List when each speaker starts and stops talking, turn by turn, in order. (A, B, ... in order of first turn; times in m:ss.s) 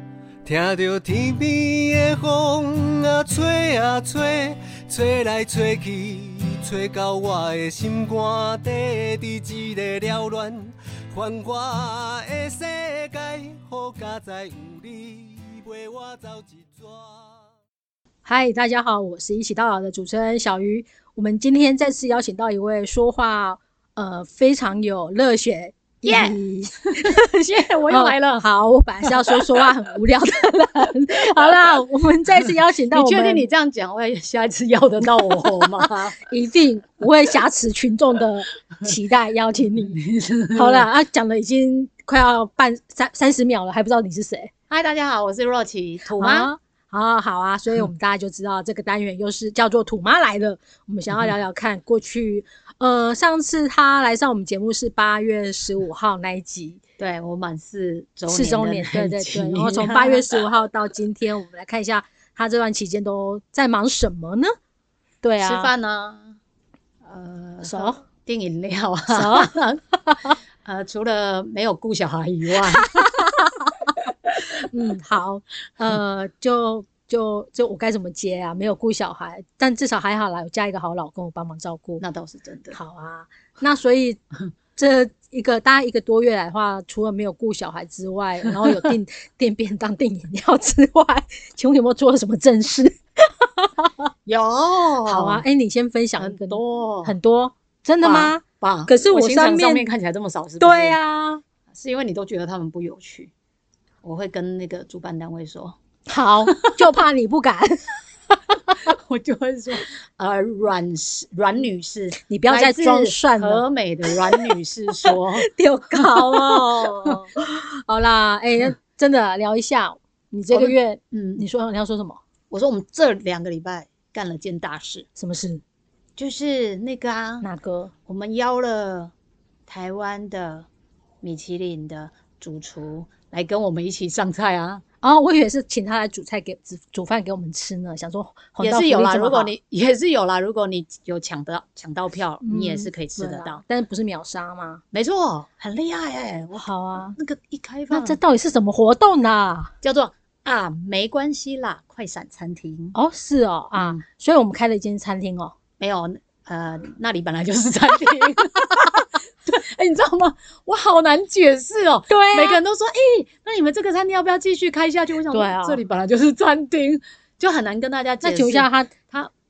0:00.4-0:17.4 A
0:18.2-0:27.2 B
0:26.0-0:26.4 C
0:26.9-0:28.4 C
0:27.9-0:33.4 B
0:29.0-0:29.6 C
0:32.9-0:36.2 C
0:35.8-0:40.0 B
0:39.9-0:40.9 C
0:40.5-0:44.5 B
0:44.7-0:46.5 C
0:46.2-0:56.8 B
0:57.0-1:00.4 C
0:58.3-1:04.5 B
1:05.2-1:05.7 B
1:05.4-1:06.4 C
1:07.0-1:09.8 C
1:07.6-1:08.0 B
1:09.1-1:10.3 B
1:10.6-1:13.4 C
1:12.9-1:13.7 B
1:14.4-1:22.0 B
1:22.0-1:22.8 C
1:22.7-1:24.2 B
1:24.8-1:33.9 B
1:34.2-1:35.4 C
1:35.0-1:39.9 B
1:36.2-1:37.1 C
1:38.0-1:41.0 C
1:40.6-1:41.4 B
1:41.7-1:43.3 C
1:44.0-1:45.8 C
1:46.1-1:47.9 B
1:46.5-1:47.0 C
1:48.7-1:57.3 C
1:52.2-2:02.2 B
2:00.5-2:01.4 C
2:02.5-2:05.1 C
2:05.2-2:05.6 B
2:06.2-2:07.4 C
2:07.4-2:07.9 B
2:08.0-2:09.1 C
2:09.7-2:10.7 C
2:11.2-2:14.8 C
2:15.0-2:19.5 B
2:18.6-2:23.6 C
2:22.4-2:24.8 B
2:24.9-2:28.2 C
2:26.6-2:27.2 B
2:27.9-2:29.7 B
2:29.8-2:33.0 C
2:32.9-2:35.5 B
2:33.8-2:34.0 C
2:35.8-2:49.3 C
2:42.1-2:42.6 B
2:45.3-2:45.8 B
2:48.2-2:48.9 B